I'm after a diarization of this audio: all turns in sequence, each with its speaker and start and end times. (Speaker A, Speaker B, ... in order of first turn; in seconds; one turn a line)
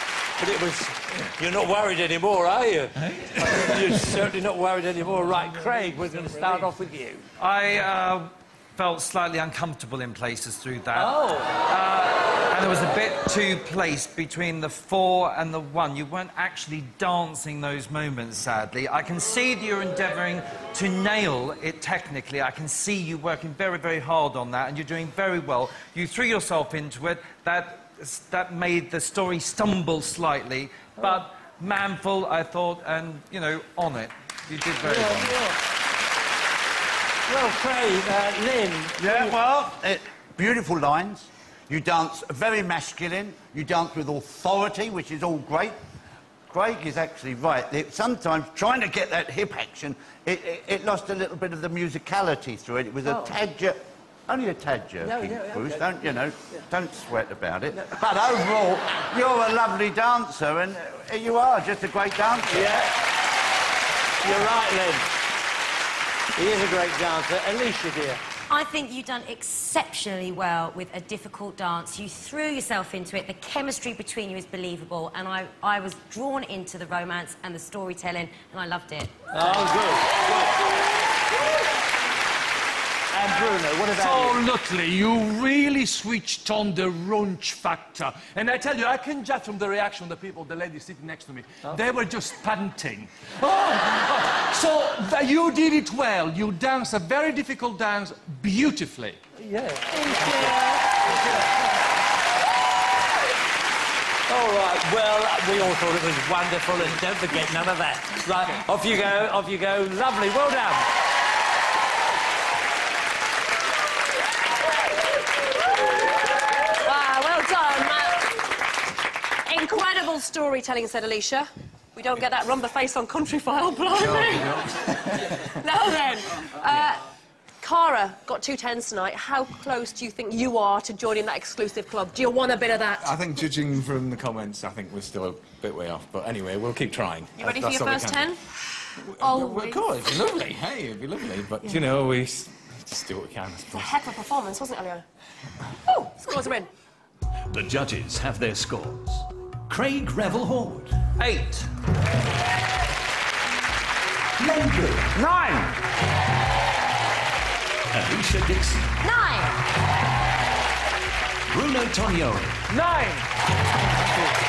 Speaker A: 0.4-7.2
Speaker B: 3.0-4.0
Speaker C: 7.4-35.4
Speaker A: 10.9-11.6
Speaker A: 34.8-35.5
Speaker A: 37.3-39.4
Speaker D: 39.0-45.8
Speaker D: 46.5-62.7
Speaker A: 55.0-55.9
Speaker A: 62.5-62.9
Speaker A: 64.2-65.1
Speaker A: 66.3-68.2
Speaker E: 68.5-79.1
Speaker A: 79.3-80.7
Speaker A: 83.1-84.4
Speaker F: 84.0-99.2
Speaker A: 99.4-100.4
Speaker F: 100.2-100.6
Speaker A: 104.3-110.9
Speaker G: 116.8-118.3
Speaker G: 119.5-124.7
Speaker B: 124.0-125.3
Speaker G: 125.6-127.0
Speaker G: 127.6-133.1
Speaker B: 133.0-138.3
Speaker G: 137.4-138.4
Speaker B: 139.0-144.0
Speaker G: 139.2-139.8
Speaker G: 143.7-145.1
Speaker G: 145.9-146.7
Speaker H: 147.5-150.9
Speaker C: 151.2-151.7
Speaker H: 154.4-155.3
Speaker H: 157.9-158.9
Speaker G: 159.0-159.5
Speaker H: 161.5-162.6
Speaker F: 162.8-163.2